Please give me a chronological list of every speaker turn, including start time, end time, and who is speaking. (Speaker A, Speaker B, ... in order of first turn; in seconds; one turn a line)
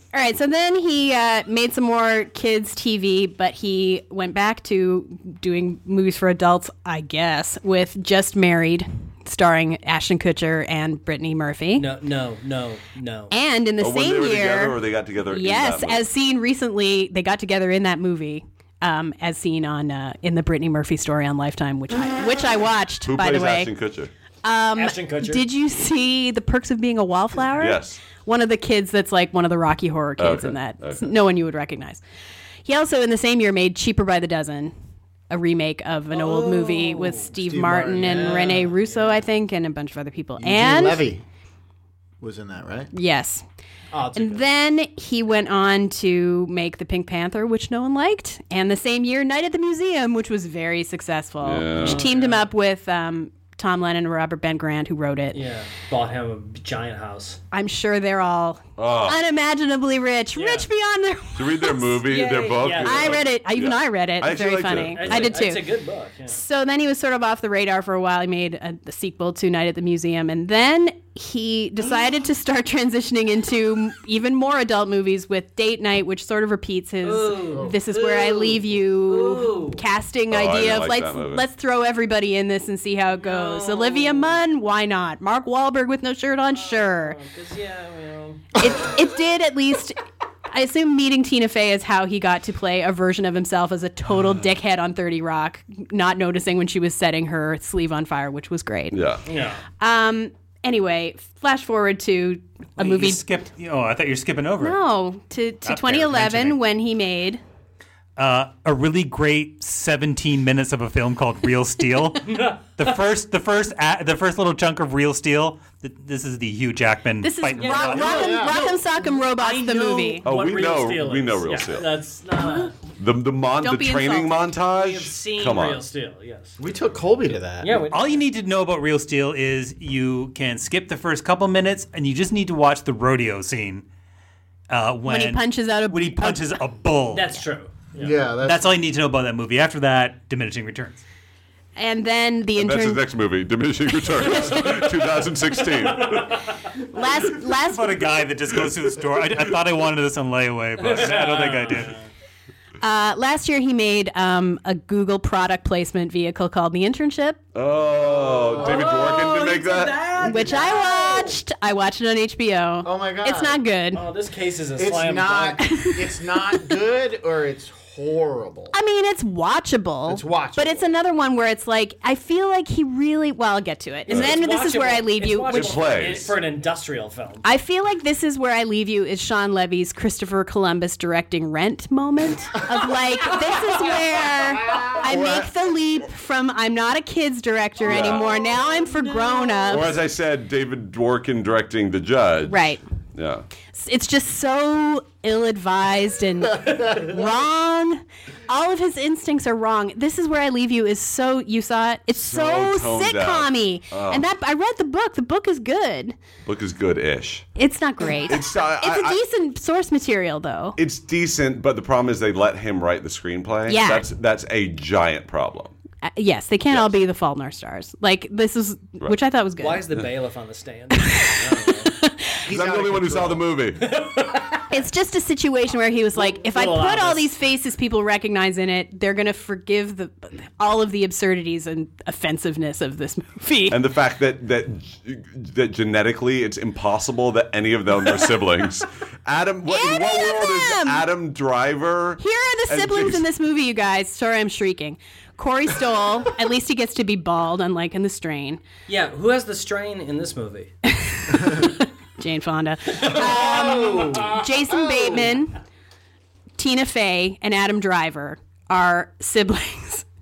Speaker A: 0.1-11.9
Speaker B: 11.8-13.3
Speaker A: 13.3-23.7
Speaker C: 13.8-16.0
Speaker C: 23.1-24.1
Speaker A: 24.4-32.0
Speaker B: 24.8-25.4
Speaker C: 27.6-28.0
Speaker C: 30.2-31.1
Speaker A: 32.6-34.7
Speaker A: 35.3-41.1
Speaker B: 36.1-37.3
Speaker D: 37.4-38.6
Speaker B: 37.9-39.2
Speaker D: 40.4-41.2
Speaker D: 42.2-42.9
Speaker A: 42.9-43.4
Speaker B: 43.9-44.4
Speaker A: 44.2-55.4
Speaker C: 51.4-52.0
Speaker B: 51.8-52.5
Speaker B: 55.3-57.4
Speaker A: 57.5-62.0
Speaker C: 58.8-59.2
Speaker B: 60.4-60.7
Speaker C: 61.4-65.4
Speaker B: 62.1-63.2
Speaker A: 62.6-65.7
Speaker B: 64.8-66.4
Speaker A: 66.3-87.2
Speaker B: 77.0-79.8
Speaker C: 80.3-81.5
Speaker B: 83.2-84.4
Speaker B: 86.5-88.5
Speaker A: 88.6-90.0
Speaker A: 90.5-99.0
Speaker C: 94.1-94.4
Speaker C: 98.9-99.2
Speaker B: 99.3-99.6
Speaker A: 99.8-103.2
Speaker E: 102.8-104.8
Speaker A: 104.6-107.4
Speaker E: 105.7-106.6
Speaker E: 108.2-118.4
Speaker B: 112.2-113.0
Speaker A: 117.2-120.2
Speaker B: 117.6-122.7
Speaker D: 118.0-118.7
Speaker C: 120.2-121.9
Speaker C: 123.0-125.8
Speaker A: 123.6-124.6
Speaker B: 124.7-126.6
Speaker D: 126.6-127.8
Speaker B: 127.6-128.2
Speaker E: 127.9-133.8
Speaker E: 134.7-137.4
Speaker A: 135.1-136.6
Speaker B: 137.1-138.2
Speaker D: 138.0-138.7
Speaker E: 138.4-141.0
Speaker A: 141.8-143.0
Speaker C: 142.6-146.5
Speaker A: 144.1-144.9
Speaker B: 145.9-146.4
Speaker A: 146.9-148.0
Speaker E: 147.6-152.0
Speaker B: 150.8-152.1
Speaker A: 152.8-157.4
Speaker C: 157.5-160.1
Speaker D: 158.0-159.0
Speaker B: 158.5-161.4
Speaker A: 160.2-164.0
Speaker D: 160.3-160.8
Speaker D: 162.8-163.6
Speaker B: 163.9-165.6
Speaker D: 164.8-168.7
Speaker A: 165.7-166.0
Speaker A: 168.7-176.2
Speaker D: 170.1-170.9
Speaker B: 174.1-177.4
Speaker C: 174.1-174.4
Speaker C: 175.5-176.4
Speaker A: 177.4-190.0
Speaker D: 184.7-185.5
Speaker C: 187.8-188.3
Speaker B: 187.9-189.8
Speaker C: 189.7-192.6
Speaker A: 192.4-192.8
Speaker C: 193.2-193.5
Speaker A: 193.7-206.2
Speaker C: 202.2-204.2
Speaker C: 206.5-207.5
Speaker A: 207.6-210.8
Speaker C: 208.2-209.2
Speaker C: 210.8-215.7
Speaker A: 213.7-214.1
Speaker A: 216.0-219.8
Speaker B: 219.6-221.9
Speaker A: 221.0-221.4
Speaker A: 221.9-222.4
Speaker D: 222.4-223.5
Speaker C: 222.5-223.9
Speaker B: 223.8-224.7
Speaker A: 224.7-233.8
Speaker B: 226.2-227.3
Speaker C: 233.7-243.2
Speaker A: 239.7-241.1
Speaker A: 242.2-248.6
Speaker B: 248.9-250.7
Speaker A: 250.9-255.6
Speaker D: 253.0-255.3
Speaker B: 253.1-253.6
Speaker A: 256.6-260.1